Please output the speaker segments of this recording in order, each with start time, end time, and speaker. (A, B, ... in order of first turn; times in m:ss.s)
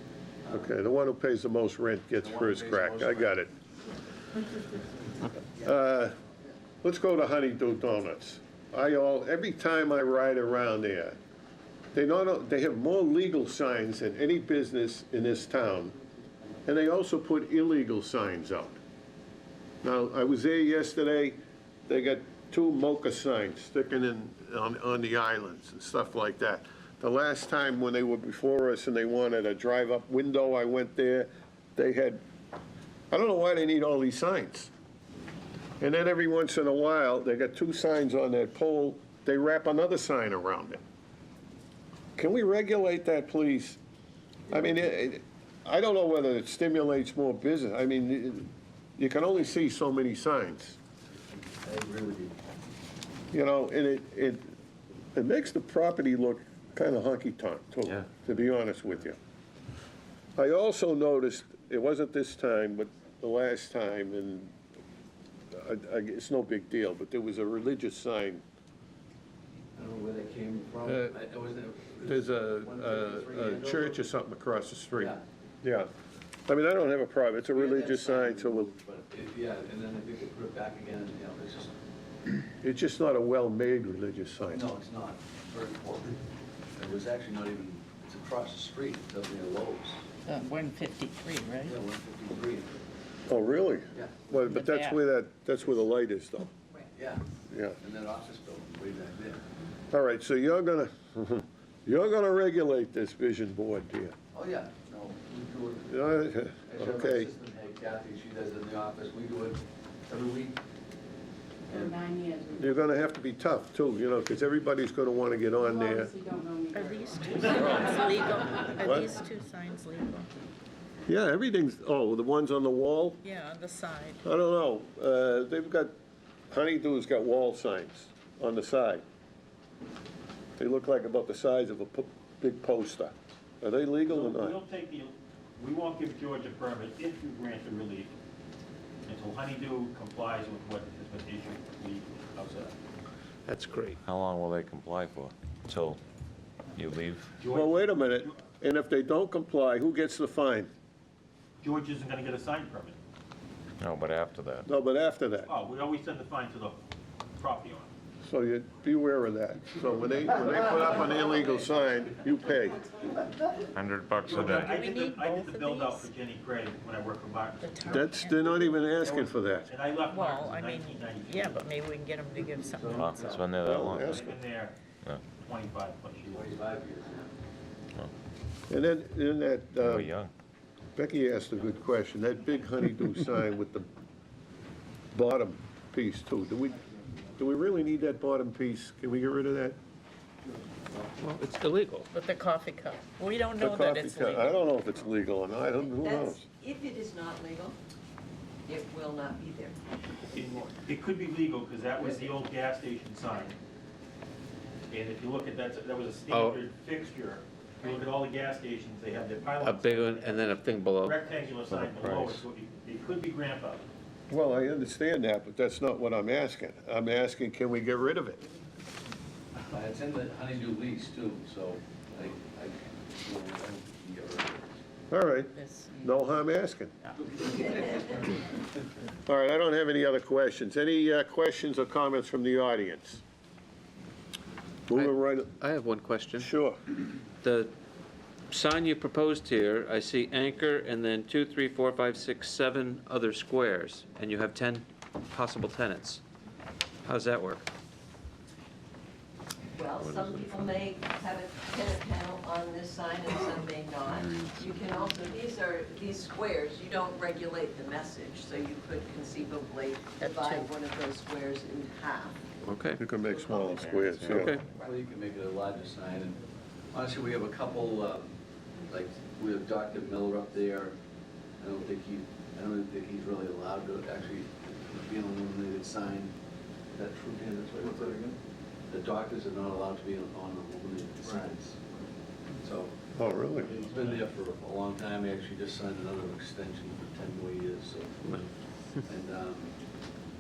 0:00.4-0:00.7 A
0:00.5-0:03.5 B
0:02.2-0:03.4 A
0:05.6-0:06.2 B
0:06.8-0:11.2 B
0:11.9-0:16.0 B
0:16.7-0:18.8 B
0:19.8-0:32.2 B
0:33.1-0:34.7 B
0:35.8-0:40.8 B
0:42.2-0:43.8 B
0:44.5-0:50.8 B
0:51.3-0:52.4 A
0:53.3-0:54.5 B
0:55.1-0:59.2 B
1:00.4-1:04.6 B
1:05.5-1:08.4 B
1:09.8-1:14.0 A
1:10.8-1:11.2 B
1:12.0-1:15.9 B
1:16.5-1:18.7 B
1:17.5-1:21.7 A
1:22.6-1:24.6 B
1:24.5-1:26.2 A
1:26.8-1:30.0 A
1:30.3-1:31.7 C
1:31.6-1:32.8 A
1:33.3-1:36.5 B
1:34.5-1:35.0 C
1:36.9-1:37.3 A
1:37.5-1:37.8 B
1:37.8-1:39.4 A
1:39.9-1:44.2 B
1:44.3-1:50.6 A
1:45.9-1:47.3 B
1:51.7-1:52.0 A
1:51.7-1:52.8 D
1:52.5-1:56.2 B
1:55.6-1:58.3 D
1:56.7-2:00.3 C
1:57.5-1:57.9 B
1:58.8-1:59.1 B
2:01.1-2:03.2 B
2:03.2-2:04.2 C
2:04.2-2:05.9 B
2:06.5-2:09.0 B
2:10.6-2:14.6 B
2:14.1-2:18.1 E
2:19.1-2:22.7 E
2:23.5-2:24.0 F
2:24.0-2:26.0 G
2:26.8-2:27.3 G
2:27.4-2:28.3 E
2:27.5-2:30.7 B
2:31.6-2:33.0 E
2:33.8-2:34.7 G
2:34.6-2:35.5 B
2:35.5-2:36.8 E
2:37.4-2:37.9 E
2:38.2-2:42.9 B
2:43.7-2:44.7 G
2:44.2-2:48.0 E
2:44.7-2:46.1 C
2:47.6-2:48.7 C
2:47.9-2:49.7 B
2:49.0-2:51.6 E
2:50.1-2:54.0 C
2:52.4-2:53.4 A
2:53.0-2:54.2 G
2:53.6-2:54.4 B
2:54.0-2:54.8 E
2:55.4-2:56.6 E
2:56.3-2:57.3 A
2:58.7-3:00.1 B
2:59.9-3:00.3 G
3:01.0-3:03.9 B
3:05.1-3:06.8 B
3:07.4-3:09.8 B
3:11.2-3:12.1 F
3:12.1-3:14.6 C
3:13.6-3:16.4 B
3:15.9-3:17.8 H
3:18.7-3:19.8 H
3:20.3-3:23.6 E
3:24.9-3:33.9 E
3:26.3-3:26.6 F
3:29.6-3:31.2 F
3:32.0-3:32.4 F
3:34.3-3:38.4 B
3:39.7-3:44.8 A
3:45.1-3:47.0 B
3:45.6-3:46.0 C
3:49.3-3:53.2 B
3:54.9-3:55.6 B
3:54.9-3:56.5 F
3:56.4-3:56.8 B
3:57.4-3:57.7 F
3:58.5-4:06.2 F
4:07.1-4:07.7 F
4:09.7-4:25.0 H
4:20.2-4:20.7 C
4:22.6-4:23.0 F
4:23.0-4:24.6 B
4:24.3-4:24.6 F
4:24.8-4:31.0 A
4:31.6-4:36.4 A
4:36.9-4:38.3 A
4:38.9-4:41.8 A
4:42.6-4:43.0 A
4:43.2-4:43.7 B
4:43.6-4:48.5 A
4:49.0-4:49.7 A